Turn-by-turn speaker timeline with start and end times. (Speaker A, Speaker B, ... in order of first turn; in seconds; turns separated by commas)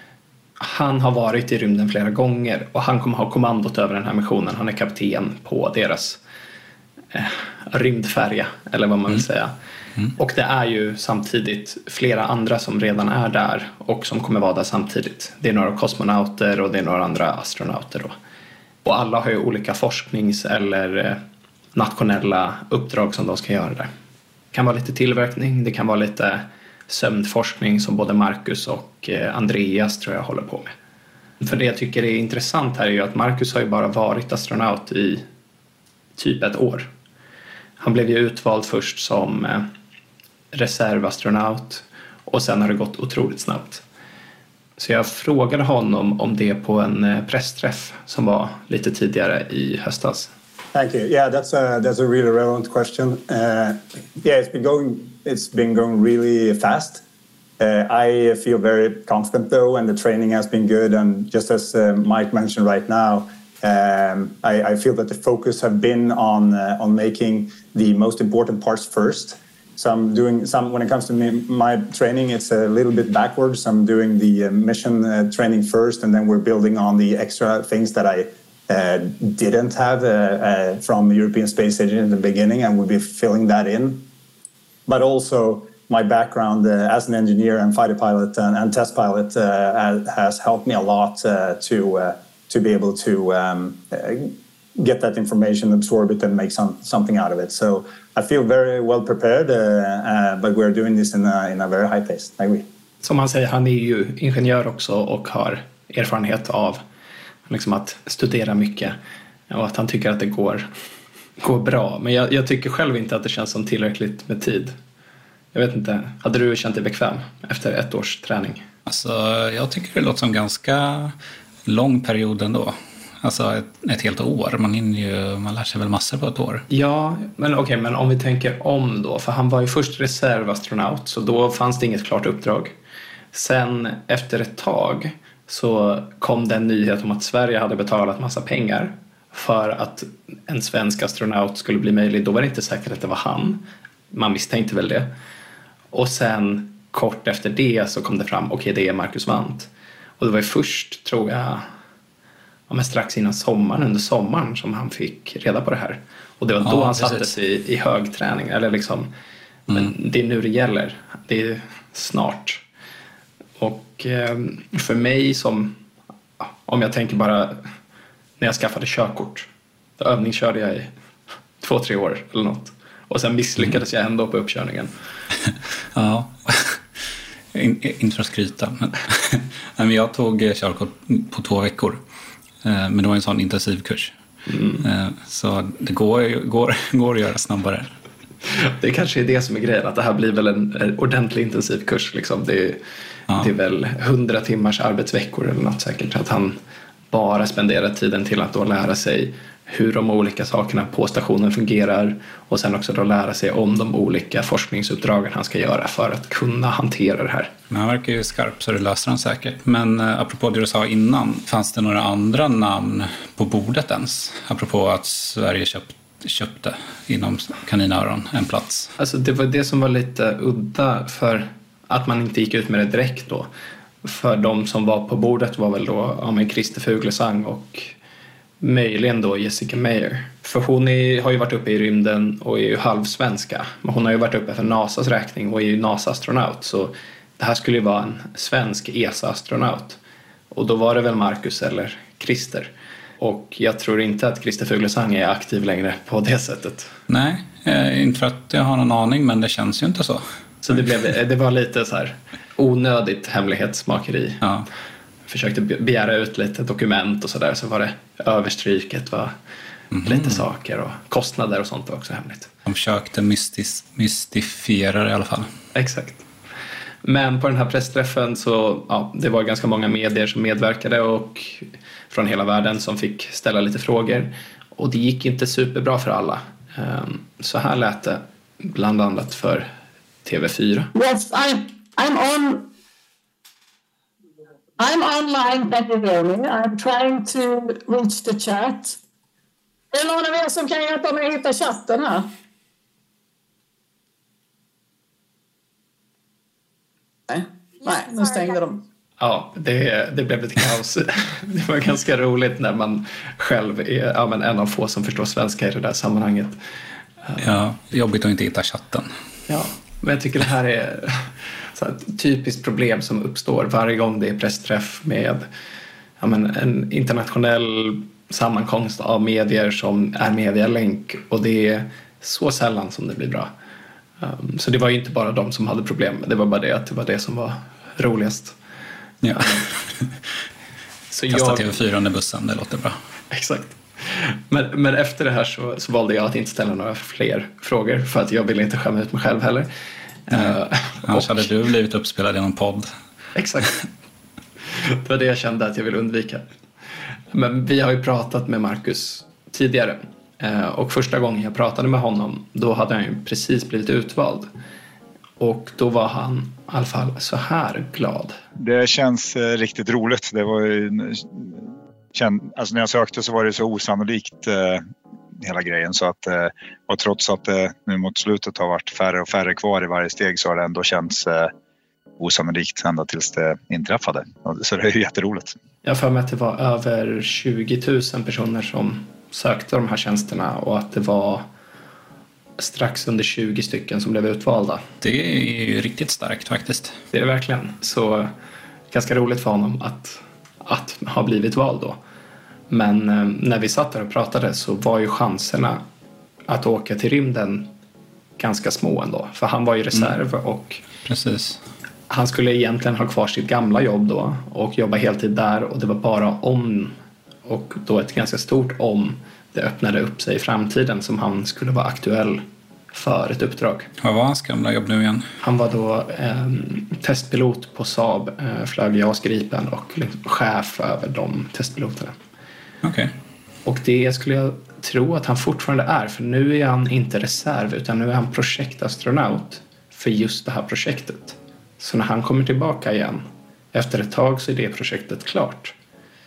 Speaker A: 0.6-6.2, Speaker A: 7.1-9.5, Speaker A: 10.2-18.1, Speaker A: 18.8-21.2, Speaker A: 21.7-23.9, Speaker A: 24.5-30.7, Speaker A: 31.4-35.2, Speaker A: 36.2-36.9, Speaker A: 37.8-39.7, Speaker A: 40.5-43.8, Speaker A: 44.8-50.3, Speaker B: 50.7-57.0, Speaker B: 57.6-84.0, Speaker B: 84.9-102.6, Speaker A: 103.0-106.8, Speaker A: 107.5-109.0, Speaker A: 109.5-110.7, Speaker A: 111.4-114.7, Speaker A: 115.5-118.6, Speaker C: 118.9-121.1, Speaker C: 121.7-126.6, Speaker A: 126.7-132.7, Speaker A: 133.3-145.1, Speaker A: 145.9-151.7, Speaker A: 152.7-159.1, Speaker C: 156.6-157.2, Speaker A: 159.7-162.6, Speaker A: 163.6-165.8, Speaker A: 166.4-167.7, Speaker A: 168.4-169.5, Speaker A: 170.0-170.9, Speaker A: 171.6-174.9, Speaker C: 175.9-176.8, Speaker C: 177.5-182.0, Speaker C: 182.6-184.1, Speaker A: 184.5-184.8, Speaker C: 184.8-187.9, Speaker A: 188.4-192.8, Speaker A: 193.3-196.6, Speaker A: 197.1-207.5, Speaker C: 207.7-218.9, Speaker A: 219.0-223.5, Speaker A: 224.0-227.9, Speaker A: 228.6-240.0, Speaker A: 240.5-246.9, Speaker C: 247.1-250.2, Speaker A: 250.6-254.4, Speaker A: 255.3-259.3, Speaker C: 259.9-260.4, Speaker A: 260.0-262.5, Speaker C: 262.6-265.5, Speaker A: 265.7-266.2, Speaker A: 267.0-279.7, Speaker A: 280.2-280.9, Speaker D: 280.9-282.7, Speaker D: 284.8-289.0, Speaker D: 289.9-292.3, Speaker D: 297.3-298.8, Speaker A: 299.2-306.6, Speaker C: 307.4-309.1, Speaker A: 309.5-315.4, Speaker A: 316.2-323.5, Speaker A: 324.2-328.6, Speaker C: 329.2-330.1, Speaker A: 329.3-329.7, Speaker A: 331.1-331.7, Speaker C: 331.3-332.9, Speaker A: 333.3-339.7, Speaker A: 340.3-341.5, Speaker C: 340.3-342.9, Speaker A: 343.4-343.7, Speaker A: 344.7-346.4, Speaker A: 347.3-354.5, Speaker A: 355.4-358.4, Speaker E: 358.6-364.8, Speaker E: 365.4-371.5, Speaker E: 372.2-375.5, Speaker A: 375.8-381.4, Speaker A: 382.6-384.8, Speaker C: 385.0-386.9, Speaker A: 387.1-388.3, Speaker A: 388.9-392.0, Speaker A: 392.7-395.8, Speaker A: 396.5-397.7, Speaker A: 398.4-400.8, Speaker C: 401.0-401.6, Speaker A: 402.1-413.9, Speaker C: 414.0-415.3, Speaker A: 415.4-422.1, Speaker C: 422.8-423.1, Speaker A: 423.6-435.7